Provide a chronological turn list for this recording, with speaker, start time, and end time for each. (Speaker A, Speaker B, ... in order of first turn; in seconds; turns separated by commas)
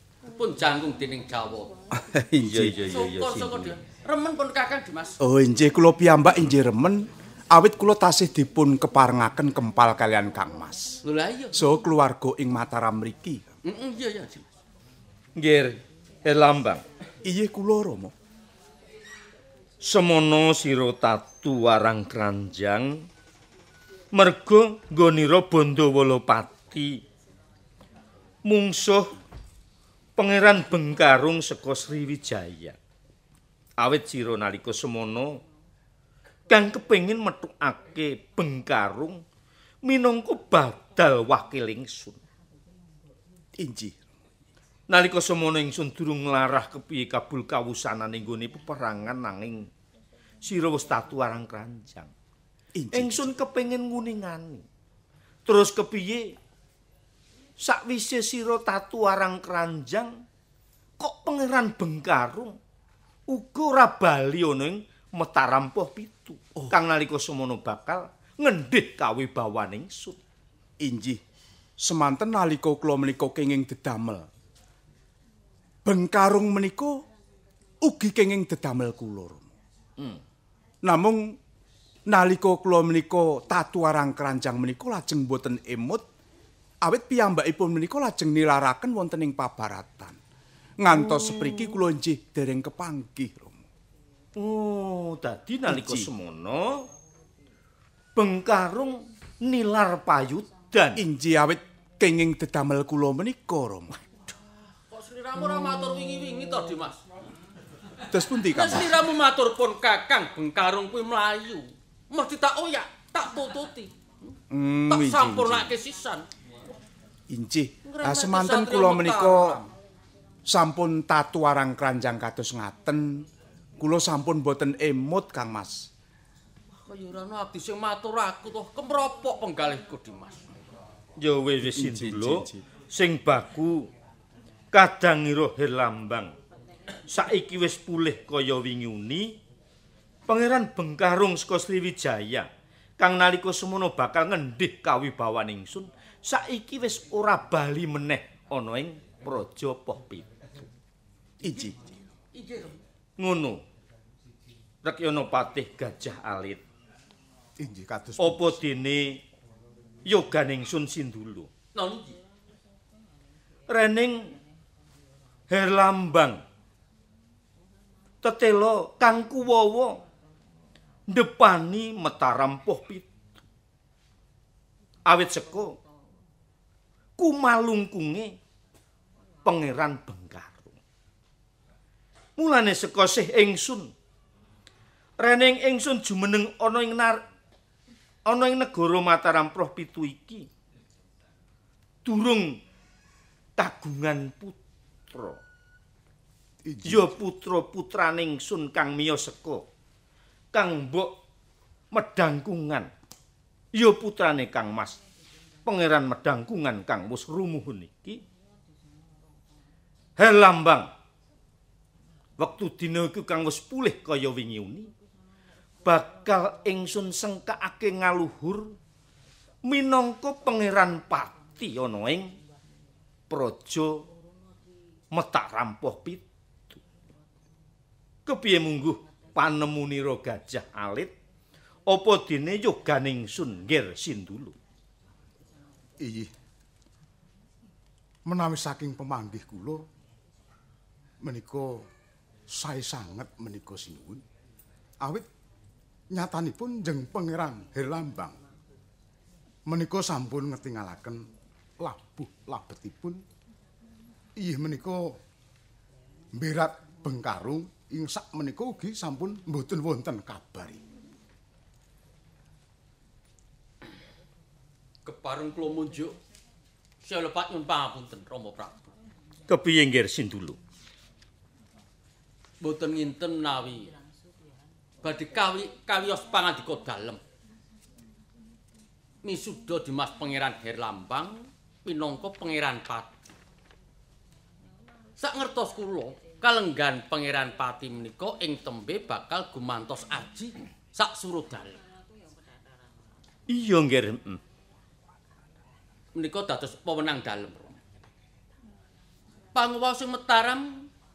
Speaker A: 0.3-1.7, Speaker B: 1.9-2.8, Speaker C: 2.4-3.8, Speaker A: 2.9-5.2, Speaker B: 5.2-11.0, Speaker A: 11.0-11.7, Speaker B: 11.5-13.5, Speaker A: 13.7-14.5, Speaker C: 15.4-16.8, Speaker B: 17.2-18.1, Speaker C: 19.8-23.1, Speaker C: 24.1-27.0, Speaker C: 28.4-29.1, Speaker C: 30.2-32.8, Speaker C: 33.8-35.4, Speaker C: 36.5-39.2, Speaker C: 39.8-42.2, Speaker B: 43.6-44.1, Speaker C: 44.9-49.7, Speaker C: 50.4-52.1, Speaker B: 52.8-53.3, Speaker C: 52.9-54.6, Speaker C: 55.5-56.3, Speaker C: 57.6-60.2, Speaker C: 61.0-62.6, Speaker C: 63.3-70.2, Speaker B: 70.8-71.2, Speaker B: 71.8-74.3, Speaker B: 75.8-77.0, Speaker B: 77.8-79.5, Speaker B: 80.8-81.4, Speaker B: 82.1-86.0, Speaker B: 86.8-90.2, Speaker B: 90.8-93.7, Speaker C: 91.2-91.5, Speaker C: 94.4-96.9, Speaker B: 95.7-96.1, Speaker C: 98.2-101.0, Speaker B: 101.0-104.0, Speaker A: 104.9-107.0, Speaker B: 108.1-108.9, Speaker A: 108.5-114.0, Speaker B: 114.5-115.8, Speaker A: 114.9-116.3, Speaker B: 117.3-119.7, Speaker A: 117.8-119.7, Speaker B: 120.5-123.3, Speaker B: 123.8-125.9, Speaker A: 126.8-130.5, Speaker C: 131.2-133.9, Speaker B: 131.7-132.6, Speaker C: 134.7-136.3, Speaker C: 137.1-139.4, Speaker C: 140.3-142.5, Speaker C: 143.0-150.7, Speaker B: 151.4-151.8, Speaker A: 152.3-152.8, Speaker C: 153.2-153.6, Speaker C: 154.8-156.6, Speaker D: 157.6-158.6, Speaker C: 158.2-159.2, Speaker C: 160.1-161.5, Speaker A: 161.8-162.2, Speaker C: 163.7-164.4, Speaker C: 165.5-166.4, Speaker C: 168.2-170.0, Speaker C: 171.1-173.1, Speaker C: 175.1-175.8, Speaker C: 177.2-178.4, Speaker C: 179.4-180.8, Speaker C: 182.4-183.9, Speaker C: 185.2-187.2, Speaker C: 188.3-190.5, Speaker C: 192.1-192.6, Speaker C: 193.6-194.6, Speaker C: 195.1-195.4, Speaker D: 196.7-197.1, Speaker C: 196.8-199.7, Speaker C: 200.5-201.2, Speaker C: 201.9-202.9, Speaker C: 203.7-205.0, Speaker C: 205.7-208.2, Speaker C: 210.2-210.9, Speaker C: 212.4-214.9, Speaker C: 215.8-218.8, Speaker C: 219.6-222.3, Speaker C: 223.3-224.1, Speaker C: 225.1-226.2, Speaker C: 228.3-231.1, Speaker C: 231.9-234.6, Speaker D: 236.0-236.3, Speaker D: 238.2-239.8, Speaker D: 241.2-241.9, Speaker D: 242.5-244.2, Speaker D: 245.0-245.3, Speaker D: 246.1-248.4, Speaker D: 249.7-251.2, Speaker D: 251.8-253.2, Speaker D: 254.4-255.2, Speaker D: 256.4-260.8, Speaker A: 265.1-266.2, Speaker A: 267.0-268.9, Speaker C: 269.5-270.6, Speaker A: 272.6-274.0, Speaker A: 275.0-277.2, Speaker A: 279.2-283.1, Speaker A: 285.2-291.8, Speaker C: 293.5-294.4, Speaker A: 296.1-297.8, Speaker A: 299.6-300.9